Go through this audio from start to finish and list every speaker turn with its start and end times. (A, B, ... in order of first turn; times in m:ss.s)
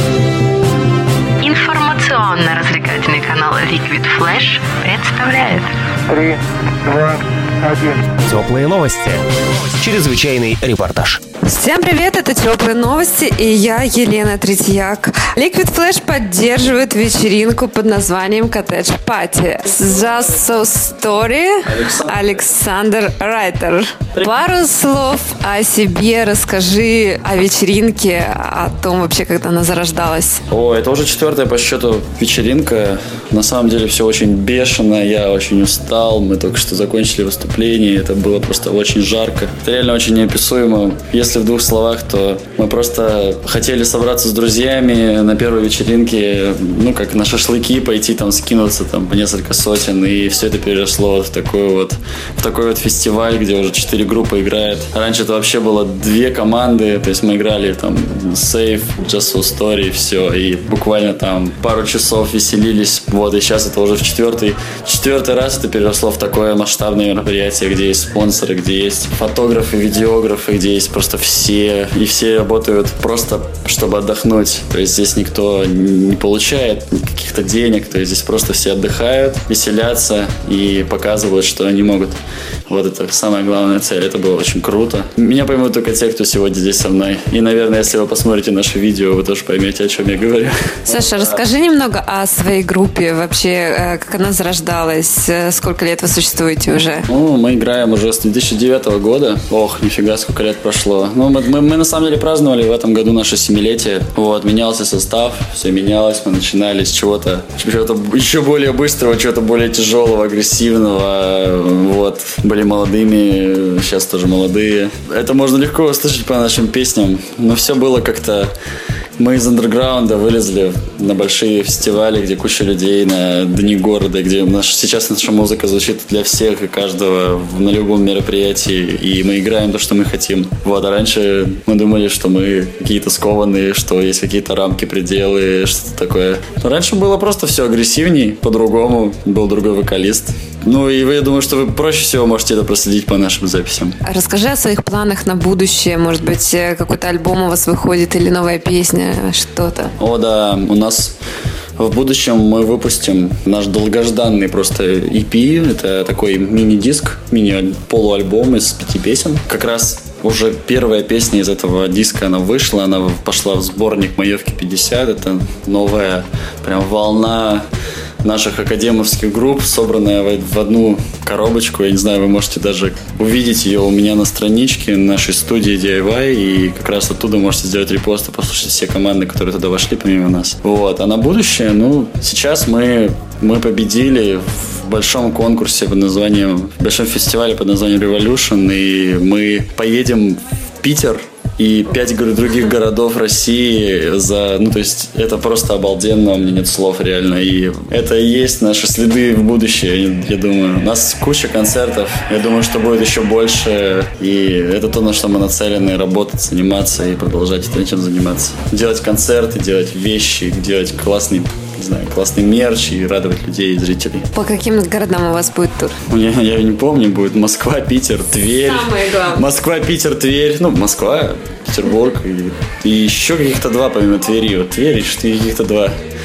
0:01.4-0:05.7 A
0:06.1-0:08.1 B
0:08.1-0:11.2 C
0:11.4-0:30.4 D
0:21.6-0:22.5 E
0:30.5-1:22.2 E
1:22.7-1:31.4 E
1:30.9-1:37.1 D
1:37.1-1:58.5 E
1:59.2-2:24.0 E
2:24.0-2:29.9 D
2:30.0-2:31.2 E
2:31.8-2:47.6 E
2:48.2-3:34.3 E
3:34.4-3:36.0 D
3:36.1-3:45.9 E
3:38.4-3:39.4 D